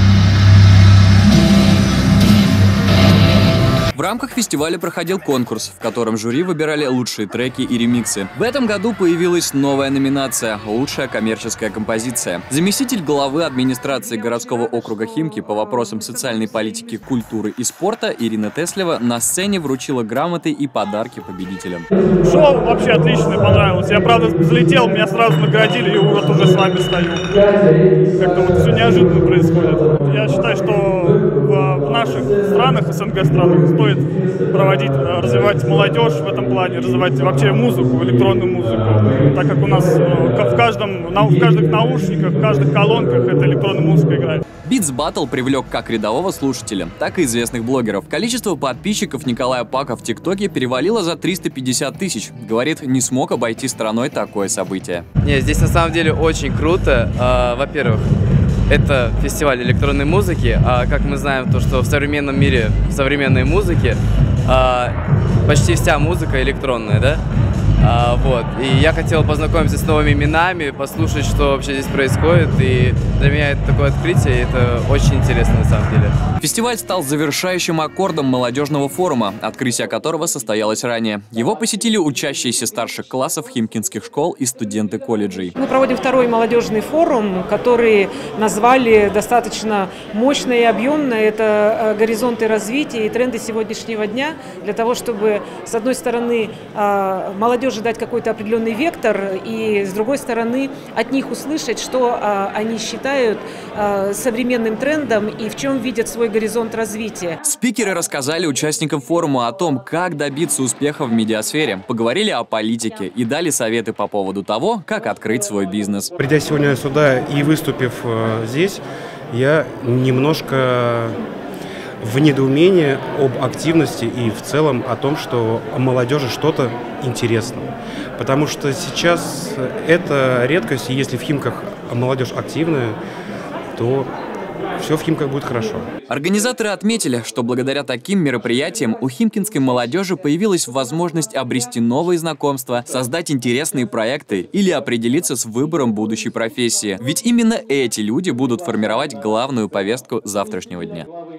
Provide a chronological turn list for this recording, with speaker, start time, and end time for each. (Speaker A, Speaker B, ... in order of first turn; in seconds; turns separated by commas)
Speaker A: 3.9-21.9, Speaker B: 22.2-44.4, Speaker A: 44.6-55.1, Speaker C: 55.2-58.1, Speaker C: 58.7-67.2, Speaker C: 67.8-76.2, Speaker A: 76.4-85.5, Speaker D: 85.6-107.4, Speaker A: 107.4-116.1, Speaker E: 116.2-121.2, Speaker E: 122.0-133.0, Speaker E: 133.8-134.1, Speaker E: 134.8-135.9, Speaker A: 136.1-151.1